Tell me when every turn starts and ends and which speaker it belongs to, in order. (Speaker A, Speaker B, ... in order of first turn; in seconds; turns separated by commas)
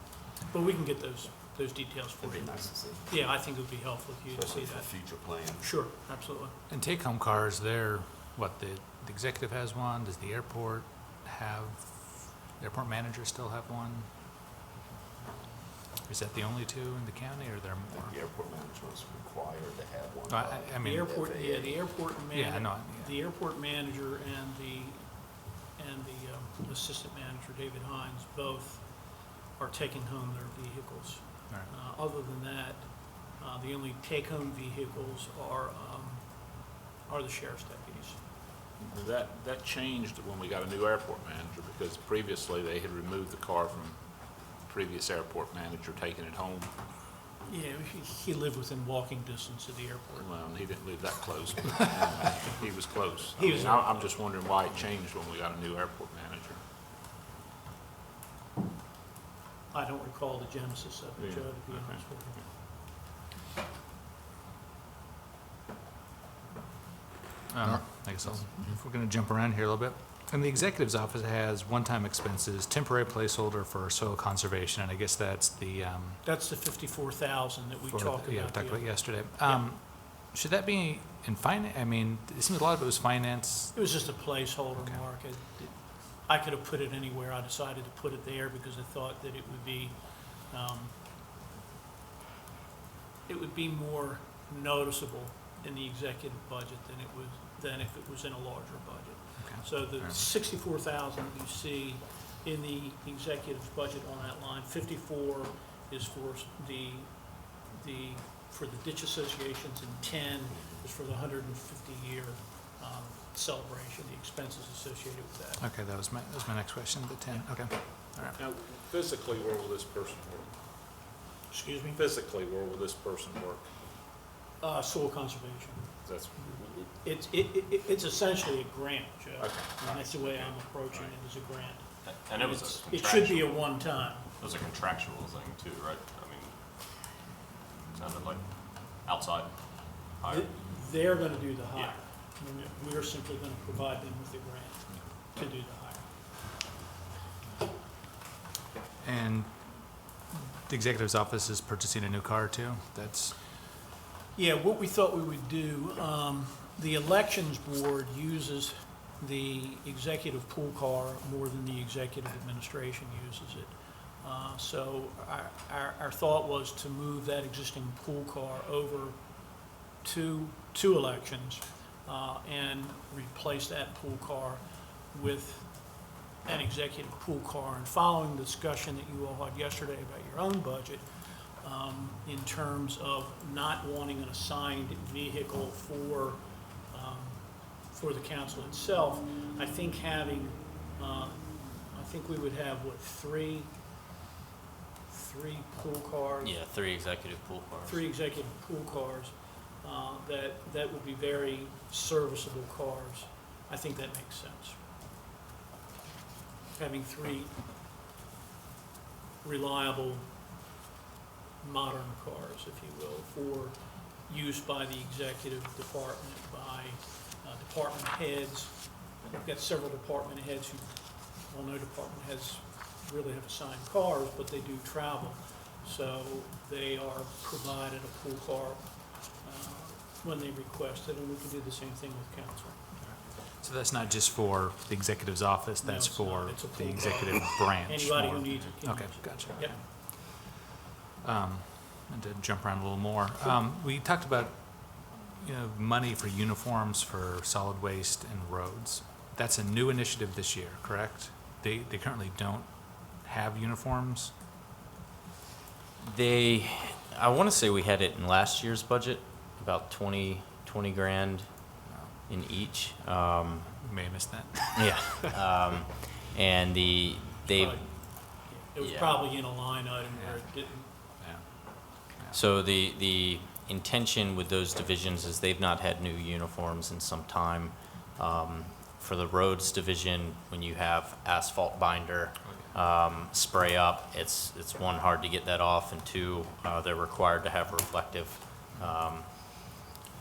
Speaker A: 0.5-4.9, Speaker B: 2.2-3.0, Speaker B: 4.3-5.7, Speaker A: 5.6-6.5, Speaker C: 6.7-14.1, Speaker C: 16.0-18.1, Speaker B: 18.0-21.8, Speaker C: 20.3-21.1, Speaker A: 20.8-38.2, Speaker C: 22.3-23.1, Speaker D: 38.8-46.7, Speaker A: 47.4-50.3, Speaker D: 50.2-56.6, Speaker A: 53.4-54.2, Speaker A: 59.7-62.4, Speaker D: 61.2-62.0, Speaker C: 67.5-76.2, Speaker A: 76.2-79.7, Speaker C: 77.9-83.8, Speaker A: 83.7-91.0, Speaker C: 84.8-85.0, Speaker A: 93.3-115.6, Speaker C: 99.4-100.2, Speaker C: 115.6-118.4, Speaker D: 118.4-120.5, Speaker A: 121.5-122.0, Speaker D: 121.9-123.7, Speaker A: 124.6-125.9, Speaker D: 126.0-126.9, Speaker A: 127.0-134.3, Speaker D: 129.4-130.4, Speaker E: 132.0-133.7, Speaker E: 134.4-136.5, Speaker E: 137.9-140.5, Speaker A: 140.2-146.1, Speaker C: 149.0-153.4, Speaker A: 154.3-169.3, Speaker A: 170.0-193.7, Speaker A: 195.1-196.6, Speaker F: 196.4-198.0, Speaker A: 197.8-204.8, Speaker A: 206.7-207.5, Speaker A: 209.4-210.3, Speaker A: 211.6-232.9, Speaker C: 233.0-240.6, Speaker A: 235.8-239.8, Speaker C: 241.2-254.3, Speaker F: 256.0-261.5, Speaker C: 261.9-262.1, Speaker F: 262.3-263.7, Speaker C: 263.8-265.2, Speaker F: 264.8-269.2, Speaker A: 267.5-270.9, Speaker C: 270.2-272.4, Speaker F: 272.3-289.8